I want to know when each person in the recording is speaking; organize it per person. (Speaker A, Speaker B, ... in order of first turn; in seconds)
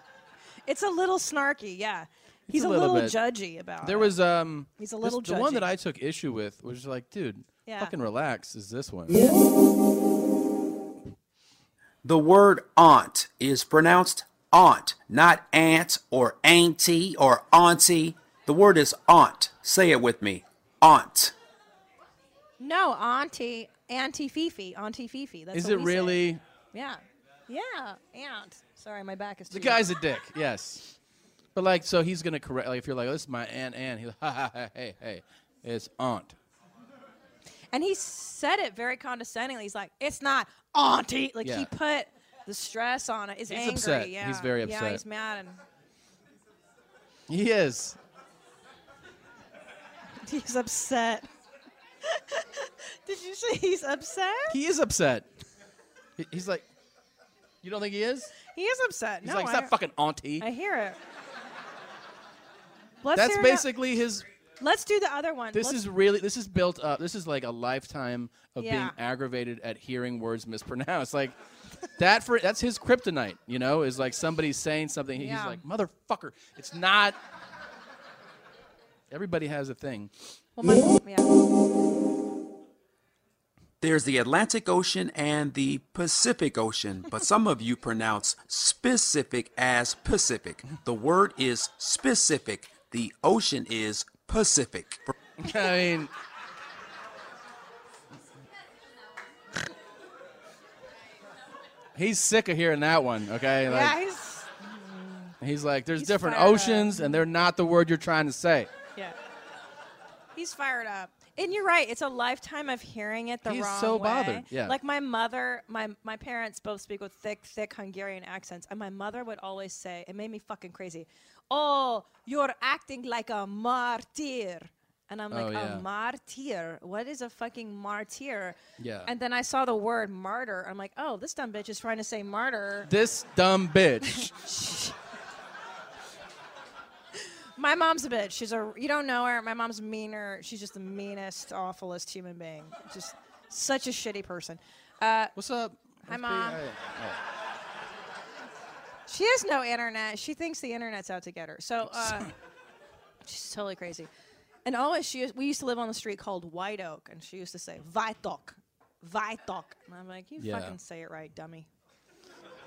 Speaker A: 0.7-4.1, 4.8-5.7, 7.7-7.9, 22.6-29.9, 37.7-45.6, 50.2-51.3, 52.0-54.5, 58.5-59.7, 60.4-61.0, 63.0-63.7, 64.6-65.8, 68.6-69.0, 75.2-75.6, 80.6-81.3, 103.7-105.3, 105.9-107.2, 110.3-132.9, 134.1-134.9, 137.6-145.3, 146.1-146.6, 149.1-152.3, 153.2-154.1, 154.6-161.7
Speaker B: 2.5-3.2, 3.8-9.2, 25.5-26.4, 29.5-30.9, 31.5-36.4, 41.4-41.7, 43.5-45.0, 47.3-48.0, 54.5-55.3, 56.2-56.6, 57.6-58.3, 59.2-60.5, 63.1-64.2, 65.5-71.3, 72.0-77.2, 79.1-80.1, 95.4-96.1, 102.0-104.0, 105.4-108.7, 113.4-114.8, 125.3-125.8, 128.8-129.1, 132.8-134.3, 145.3-147.2, 151.9-152.3, 160.4-160.8
Speaker C: 12.0-21.3, 83.8-95.1